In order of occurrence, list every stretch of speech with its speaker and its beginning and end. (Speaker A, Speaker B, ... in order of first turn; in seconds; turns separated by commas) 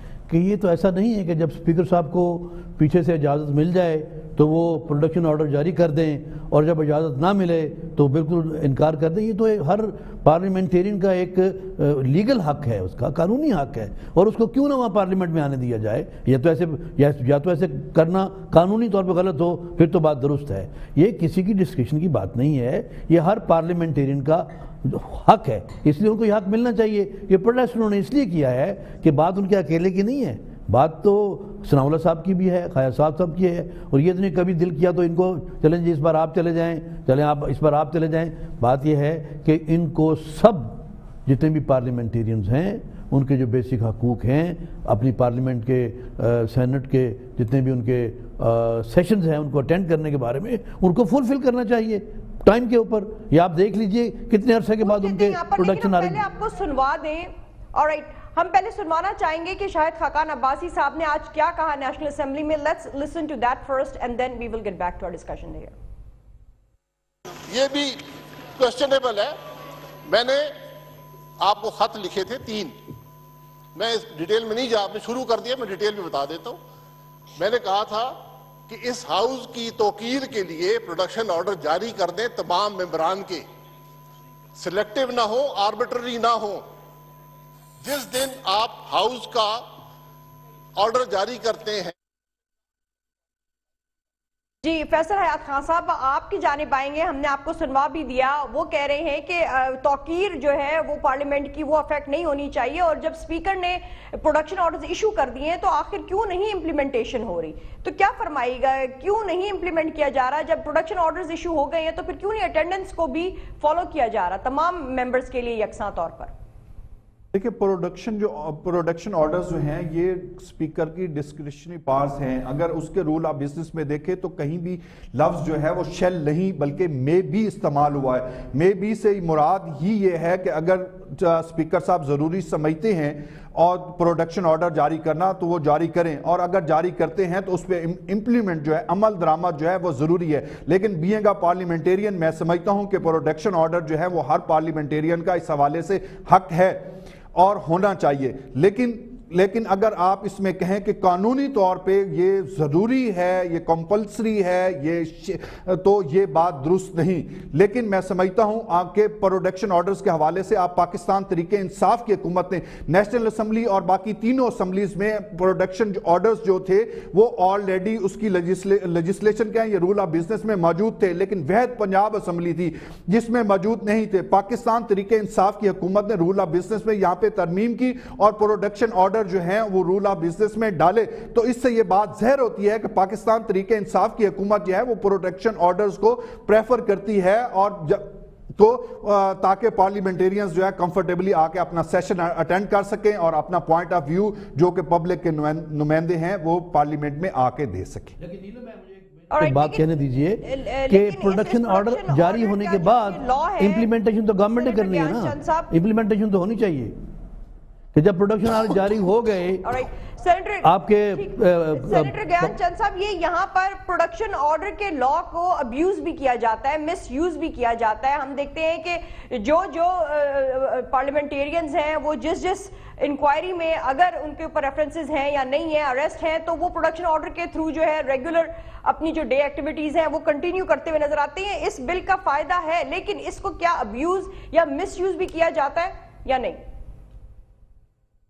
Speaker A: 0.3-56.2, Speaker B: 54.8-65.7, Speaker C: 67.5-69.4, Speaker C: 70.1-70.7, Speaker C: 71.4-72.8, Speaker C: 73.8-76.6, Speaker C: 77.4-83.4, Speaker C: 84.6-86.7, Speaker C: 87.8-89.8, Speaker C: 90.8-91.9, Speaker B: 94.6-116.3, Speaker D: 117.3-198.2, Speaker A: 198.2-207.0, Speaker B: 199.3-199.9, Speaker B: 200.4-203.9, Speaker B: 204.5-205.7, Speaker A: 207.9-209.7, Speaker B: 209.6-236.6, Speaker A: 210.6-212.5